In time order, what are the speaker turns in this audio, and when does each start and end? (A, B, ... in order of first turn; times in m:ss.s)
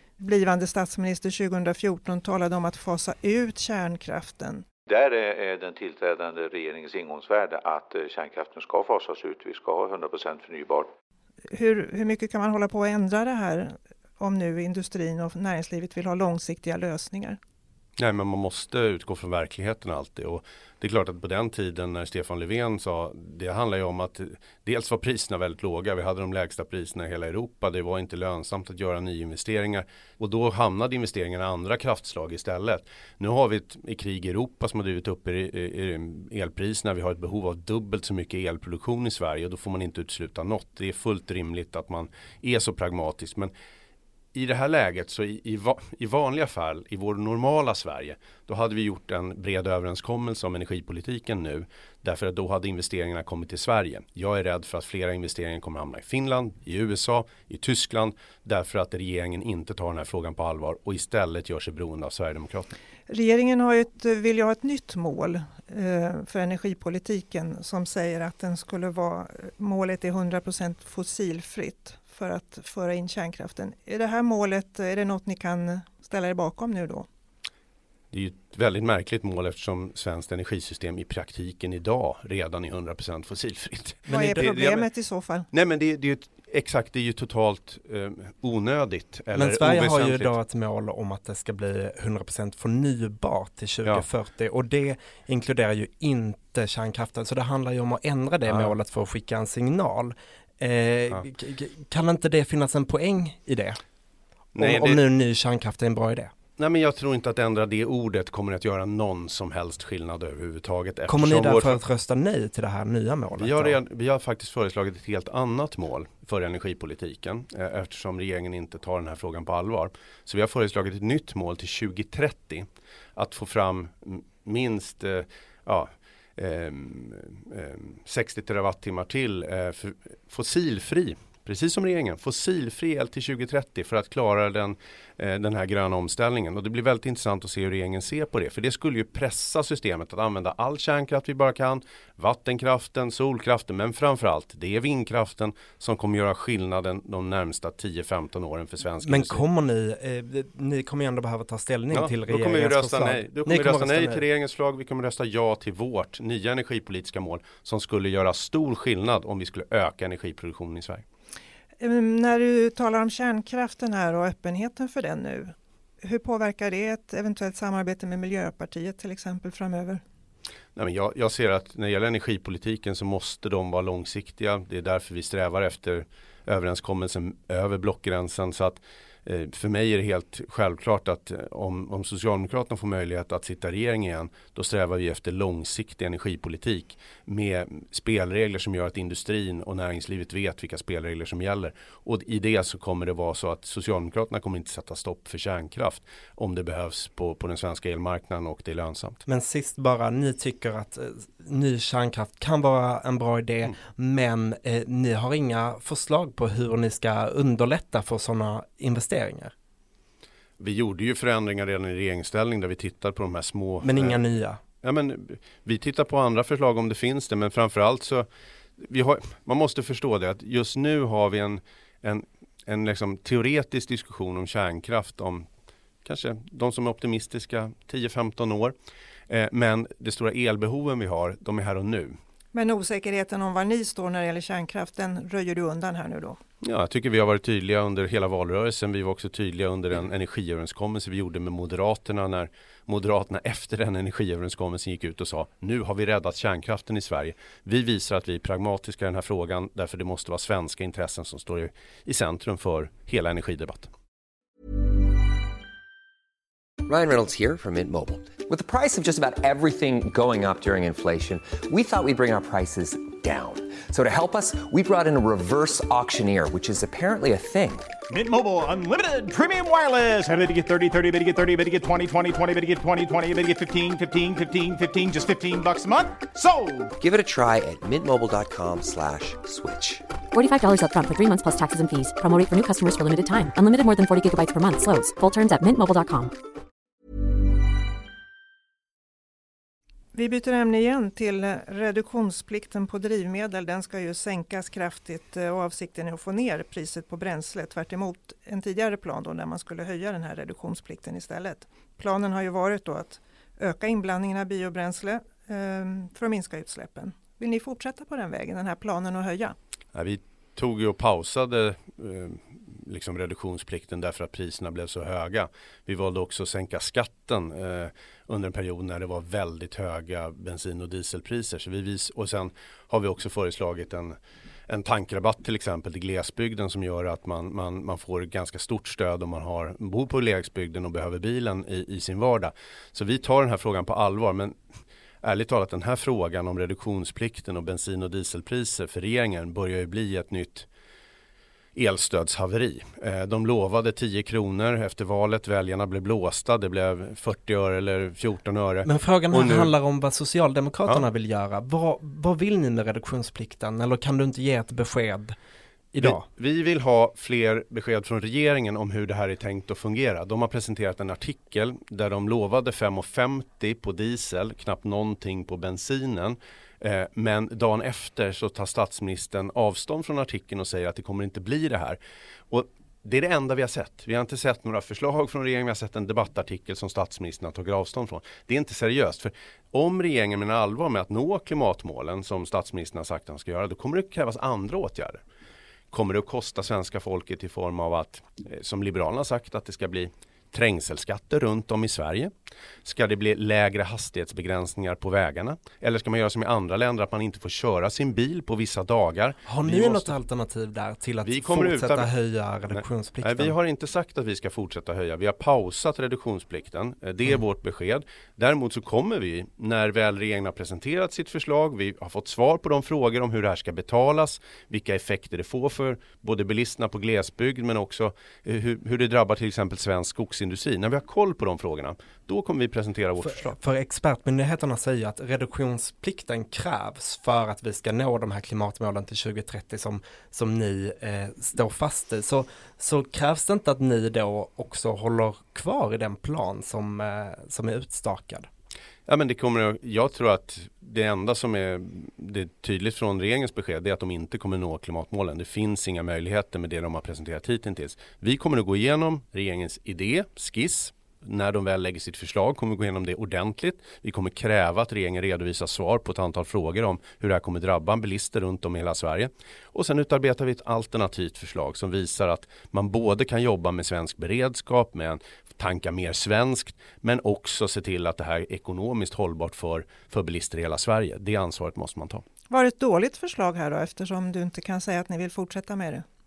0:00.2-0:04.6 A
0:04.9-0:10.9 B
0:11.5-0:17.4 A
0:18.0-0:43.5 C
0:44.3-1:02.7 C
1:03.1-1:17.1 A
1:18.1-1:24.9 C
1:24.1-1:24.5 D
1:24.1-1:25.5 A
1:25.5-1:30.3 C
1:29.3-1:43.8 D
1:38.5-1:38.7 C
1:44.5-1:45.0 C
1:44.6-1:46.3 D
1:46.6-1:51.8 C
1:51.1-1:53.8 D
1:53.4-2:29.4 C
2:29.0-2:34.2 D
2:31.9-2:41.0 C
2:41.8-2:50.0 A
2:50.8-3:19.2 C
3:19.2-3:29.5 D
3:30.6-3:34.2 C
3:33.8-3:34.6 D
3:34.8-3:38.3 C
3:38.8-3:45.5 C
3:46.0-3:48.7 C
3:49.3-3:52.2 C
3:52.5-3:56.4 A
3:56.6-4:13.9 C
4:16.8-4:28.0 E
4:28.1-4:36.9 F
4:37.0-4:40.0 E
4:40.3-4:46.3 G
4:50.1-5:09.6 A
5:09.9-5:24.1 C
5:24.7-5:34.5 C
5:35.2-5:40.7 C
5:41.8-5:49.7 C
5:48.8-5:55.3 D
5:55.9-5:56.2 D
5:56.0-6:12.0 C
6:12.5-6:25.2 C
6:25.9-6:32.3 C
6:32.8-6:40.1 C
6:39.5-6:43.5 D
6:41.2-6:42.1 C
6:42.7-7:03.6 C
7:03.2-7:18.5 D
7:19.1-7:52.2 C
7:52.5-7:56.0 A